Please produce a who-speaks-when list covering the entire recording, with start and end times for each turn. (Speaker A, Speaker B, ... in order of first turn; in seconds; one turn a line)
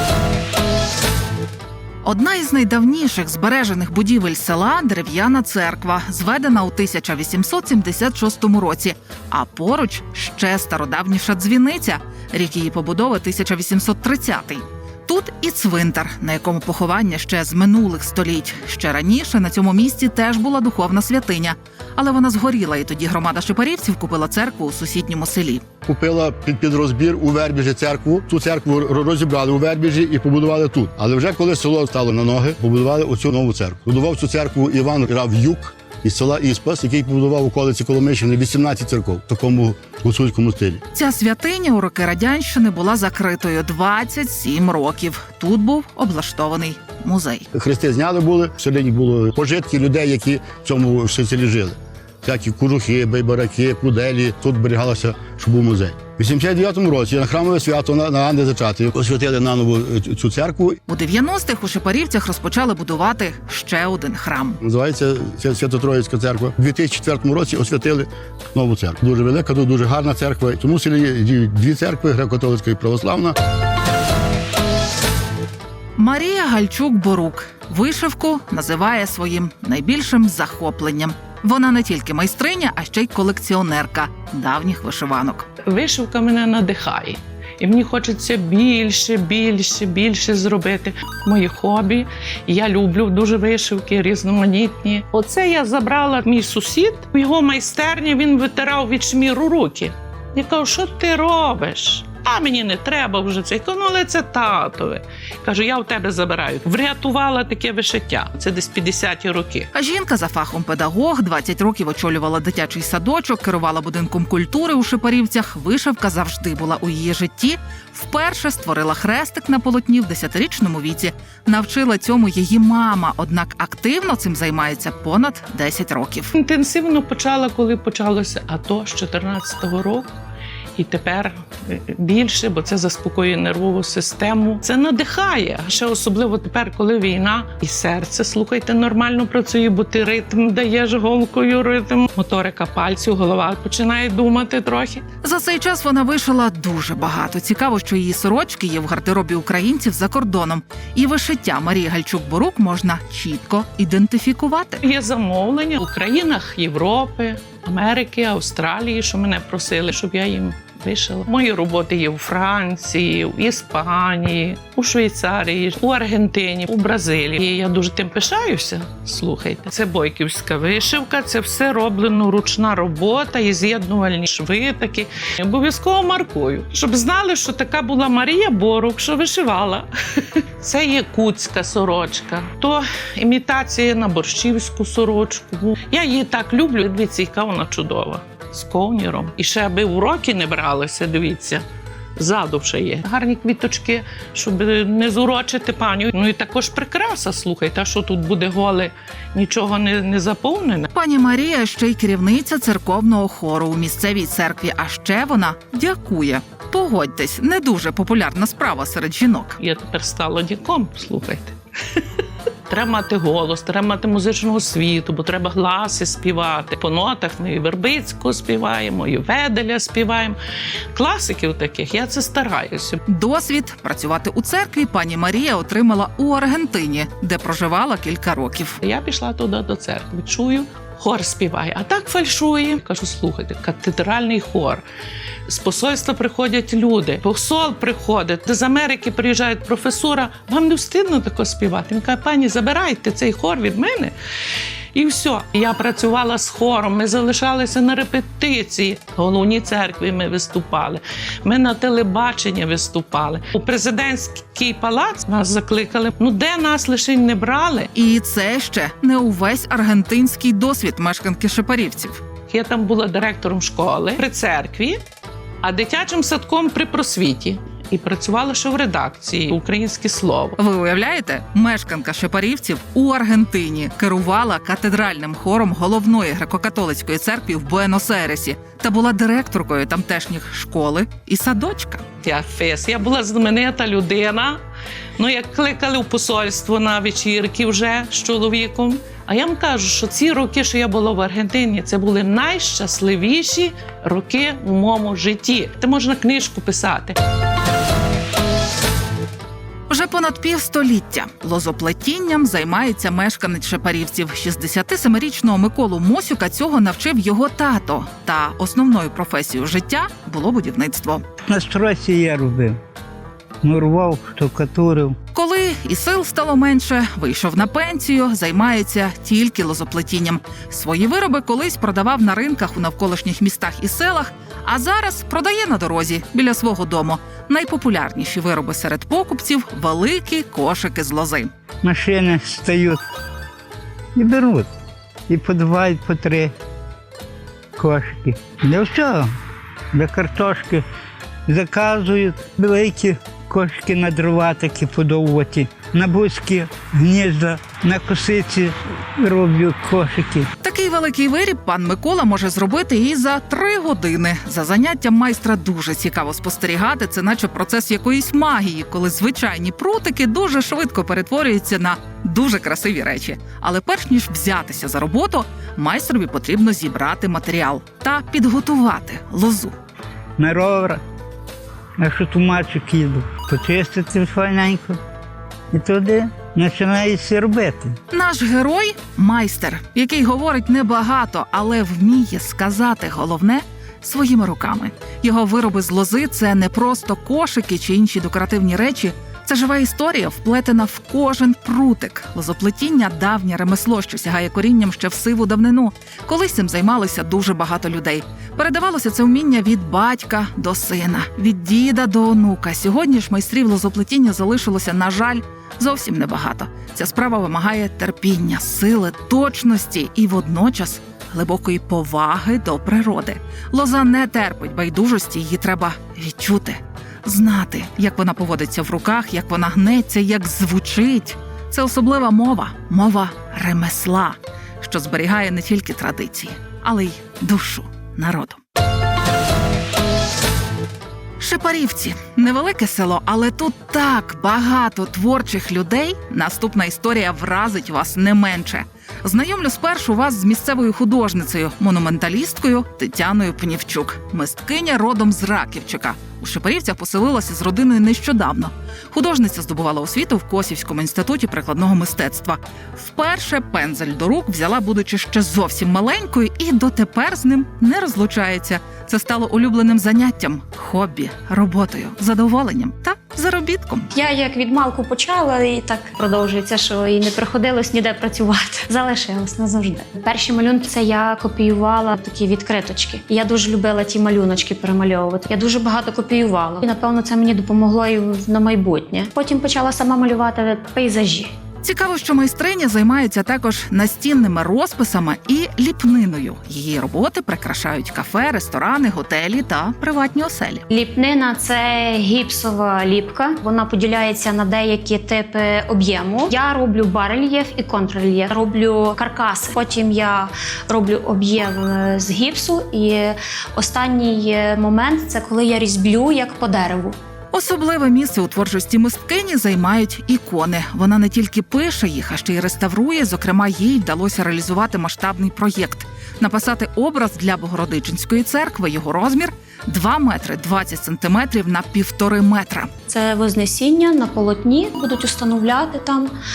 Speaker A: 2.0-25.6
Speaker B: 25.9-40.8
Speaker A: 40.9-47.5
Speaker B: 47.5-60.8
Speaker A: 60.9-64.6
Speaker B: 64.6-73.4
Speaker A: 76.0-85.5
Speaker C: 85.7-109.7
Speaker A: 109.7-126.3
Speaker C: 126.4-130.1
Speaker C: 130.8-145.0
Speaker A: 145.2-154.8
Speaker C: 154.8-191.7
Speaker C: 192.2-200.9
Speaker A: 200.9-209.6
Speaker C: 209.6-212.1
Speaker C: 212.7-220.4
Speaker C: 220.9-223.0
Speaker A: 223.1-228.8
Speaker C: 228.8-234.8
Speaker C: 235.5-244.1
Speaker C: 244.9-257.9
Speaker A: 257.9-262.2
Speaker C: 262.5-265.0
Speaker C: 265.6-270.6
Speaker A: 270.6-282.0
Speaker C: 282.2-284.6
Speaker C: 285.2-297.2
Speaker A: 299.9-311.2
Speaker D: 311.5-312.8
Speaker D: 313.6-315.1
Speaker A: 315.3-331.5
Speaker D: 331.8-333.0
Speaker D: 334.2-334.7
Speaker D: 335.3-336.5
Speaker D: 337.8-339.3
Speaker D: 339.9-340.8
Speaker D: 341.5-350.5
Speaker A: 350.6-369.7
Speaker D: 370.4-371.0
Speaker D: 372.0-375.0
Speaker D: 375.7-378.0
Speaker A: 378.1-428.6
Speaker A: 431.4-464.1
Speaker E: 464.1-481.5
Speaker A: 481.8-490.9
Speaker E: 490.9-507.2
Speaker A: 507.5-522.9
Speaker E: 523.1-526.3